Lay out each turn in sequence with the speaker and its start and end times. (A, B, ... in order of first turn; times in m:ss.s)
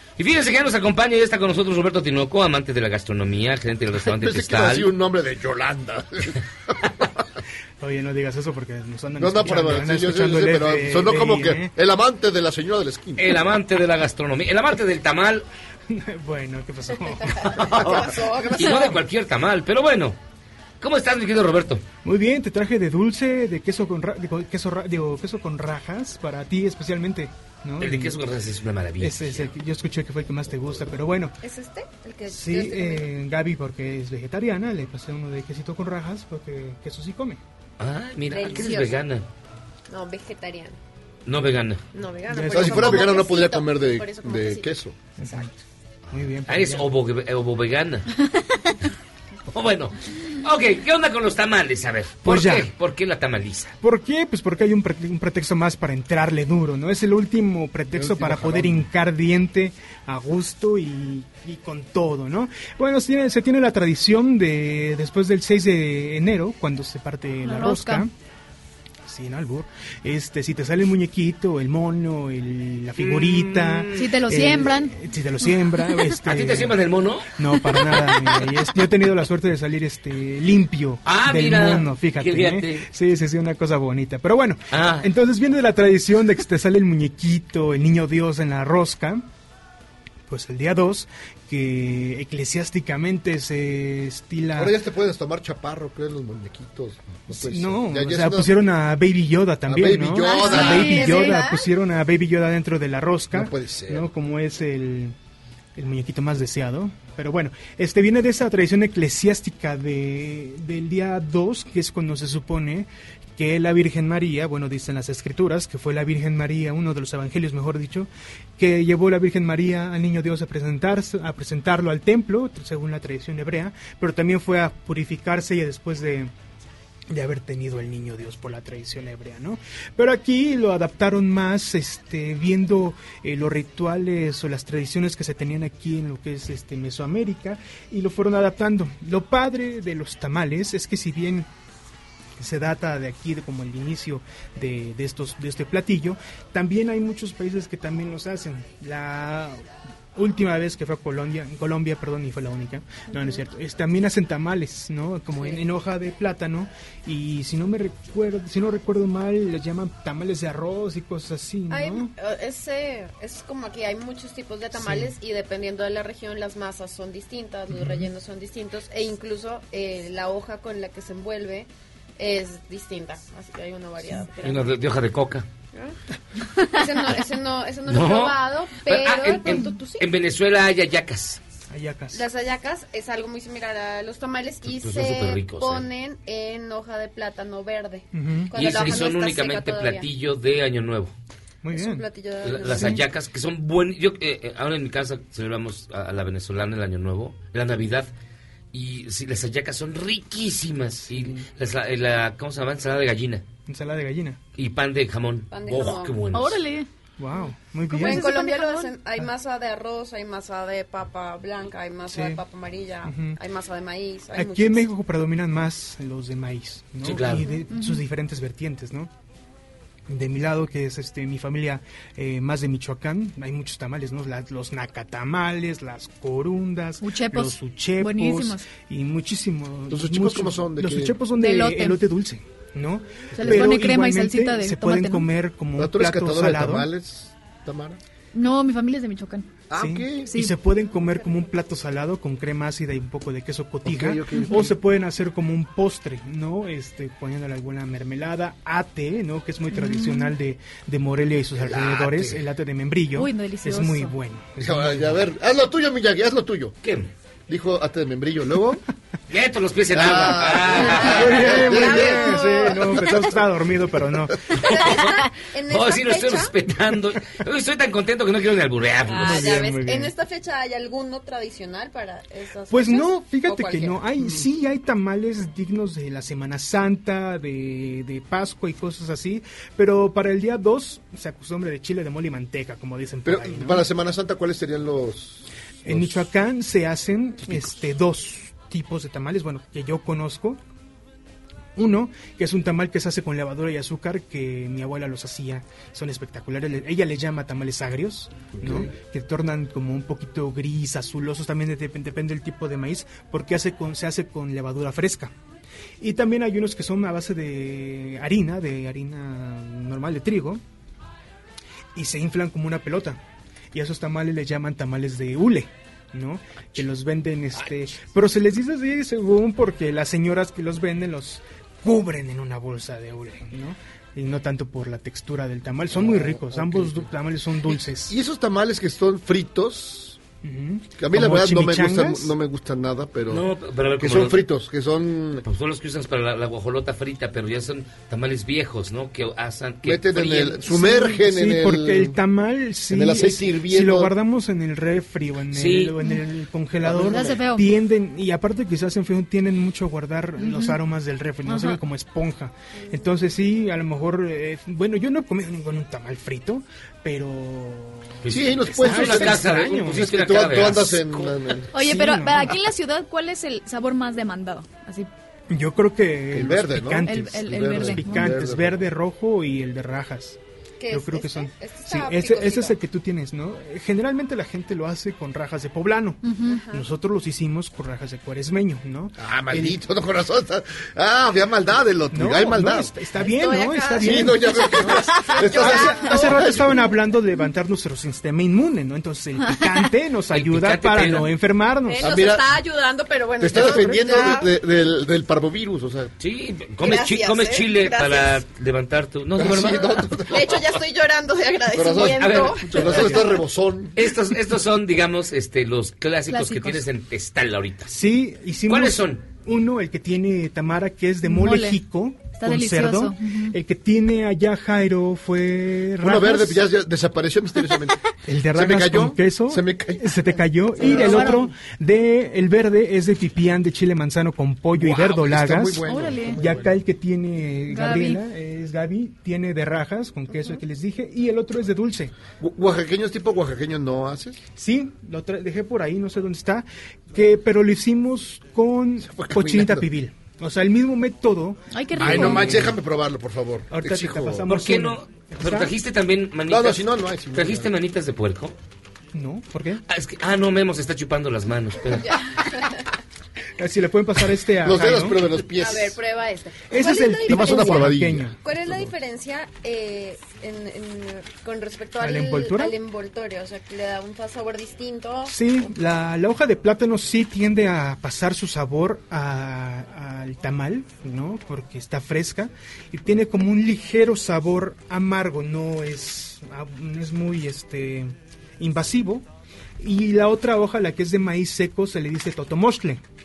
0:00.2-0:04.9 A
0:04.0-0:07.2 B
0:07.8-0:11.7 C
0:09.2-0:13.4 B
0:13.2-0:15.4 A
0:15.9-0:18.0 C
0:17.4-0:19.0 D
0:17.5-0:18.0 A
0:18.5-0:20.2 A
0:20.8-0:21.8 A
0:22.0-0:28.2 C
0:27.8-0:29.5 A
0:29.0-0:31.4 C
0:31.4-0:33.1 D
0:32.3-0:37.4 C
0:37.8-0:39.3 A
0:38.3-0:39.0 D
0:39.9-0:40.8 D
0:41.3-0:41.8 A
0:41.9-0:44.7 D
0:42.3-0:43.1 C
0:42.5-0:45.0 B
0:45.2-0:45.6 C
0:46.1-0:46.9 C
0:46.5-0:48.1 A
0:49.5-0:53.7 A
0:52.2-0:52.7 C
0:53.8-1:08.1 C
0:57.9-0:58.8 B
1:07.4-1:08.0 E
1:09.1-1:16.8 C
1:13.0-1:14.2 A
1:14.0-1:15.0 E
1:16.2-1:17.4 A
1:17.4-1:29.3 C
1:17.9-1:18.4 A
1:21.0-1:22.9 A
1:24.7-1:25.1 A
1:30.3-1:34.8 C
1:34.6-1:38.5 B
1:37.3-1:45.2 C
1:39.7-1:41.0 B
1:40.2-1:41.6 E
1:40.6-1:41.6 D
1:43.3-1:44.1 B
1:45.8-2:06.3 C
2:07.1-2:21.5 C
2:22.4-2:29.6 C
2:30.2-2:42.1 C
2:41.7-2:54.7 D
2:44.7-2:45.1 C
2:47.7-2:48.1 C
2:54.4-2:55.4 A
2:55.7-2:56.0 D
2:56.6-3:00.1 D
2:57.9-3:01.4 A
3:01.7-3:02.2 C
3:02.1-3:10.1 D
3:04.6-3:05.9 A
3:08.1-3:08.6 C
3:08.5-3:11.1 A
3:11.6-3:12.1 C
3:11.7-3:13.0 D
3:12.4-3:18.1 A
3:12.6-3:13.0 C
3:18.7-3:23.4 A
3:21.1-3:21.4 C
3:23.7-3:24.4 C
3:24.6-3:26.6 A
3:25.5-3:26.3 D
3:26.3-3:26.9 E
3:27.2-3:28.3 C
3:27.9-3:29.0 E
3:28.0-3:34.9 D
3:32.1-3:32.4 C
3:33.0-3:33.4 C
3:34.3-3:39.1 C
3:37.0-3:37.5 A
3:37.7-3:38.0 E
3:40.1-3:56.9 C
3:47.0-3:48.7 E
3:49.9-3:51.2 B
3:51.4-3:52.0 E
3:53.4-3:55.3 E
3:55.8-3:58.0 B
3:58.3-3:59.5 E
3:59.7-4:00.4 B
3:59.7-4:15.2 C
4:00.2-4:00.6 E
4:03.8-4:04.7 B
4:04.3-4:04.7 E
4:09.7-4:10.4 E
4:11.6-4:12.4 B
4:13.1-4:14.2 E
4:14.6-4:16.8 B
4:16.8-4:17.1 A
4:17.5-4:18.8 B
4:19.3-4:21.5 A
4:19.9-4:23.0 B
4:20.8-4:23.4 D
4:21.1-4:24.4 C
4:24.5-4:26.6 D
4:24.6-4:25.2 A
4:25.7-4:29.6 A
4:29.1-4:34.0 D
4:29.2-4:30.1 C
4:32.7-4:43.9 C
4:43.2-4:46.2 B
4:45.8-4:50.6 C
4:47.5-4:47.7 B
4:51.8-5:05.3 C
4:58.6-4:58.9 B
5:06.0-5:10.6 C
5:12.0-5:13.2 C
5:13.7-5:28.1 C
5:25.9-5:27.1 B
5:27.7-5:30.2 B
5:30.4-5:32.4 C
5:31.0-5:33.5 B
5:33.3-5:34.4 A
5:34.0-5:35.4 B
5:35.4-5:40.7 A
5:39.8-5:42.2 B
5:40.7-6:00.1 C
5:42.9-5:44.1 B
5:45.5-5:45.9 A
5:46.8-5:47.4 B
5:46.9-5:47.7 E
5:50.4-5:50.8 E
5:51.5-5:51.8 E
5:58.2-6:01.4 A
5:58.3-6:01.7 B
6:01.7-6:05.1 E
6:01.8-6:02.6 C
6:05.5-6:10.4 C
6:06.3-6:08.8 B
6:07.1-6:08.4 E
6:10.8-6:12.8 D
6:10.9-6:19.8 C
6:16.2-6:16.6 E
6:16.5-6:16.8 D
6:19.2-6:22.9 B
6:22.1-6:32.1 C
6:23.2-6:26.6 D
6:24.0-6:26.8 B
6:29.4-6:29.8 E
6:30.3-6:31.3 A
6:31.9-6:34.5 D
6:32.0-6:32.6 B
6:33.4-6:36.1 B
6:36.2-6:40.7 A
6:36.8-6:38.4 D
6:39.4-6:40.5 B
6:40.3-6:43.2 D
6:41.7-6:44.0 B
6:41.9-6:43.1 A
6:44.0-6:47.9 A
6:47.9-6:56.7 C
6:48.7-6:49.3 A
6:51.2-6:51.8 E
6:52.4-6:53.6 E
6:56.0-6:58.0 B
6:58.2-7:12.1 C
6:58.5-7:00.3 B
7:00.8-7:01.3 B
7:00.9-7:01.4 E
7:04.8-7:06.7 B
7:05.9-7:06.4 E
7:07.7-7:08.2 E
7:10.3-7:10.6 D
7:12.4-7:14.4 B
7:14.6-7:22.7 C
7:19.0-7:19.9 B
7:21.7-7:22.6 E
7:22.0-7:24.4 B
7:23.7-7:25.7 C
7:24.5-7:28.6 A
7:26.5-7:27.7 B
7:29.1-7:29.8 C
7:29.9-7:32.2 A
7:32.0-7:32.8 D
7:33.6-7:35.3 C
7:34.6-7:36.0 B
7:35.6-7:37.5 D
7:36.7-7:38.4 C
7:37.2-7:38.9 B
7:38.4-7:45.3 D
7:42.0-7:42.8 C
7:45.3-7:59.3 C
7:59.8-8:03.0 C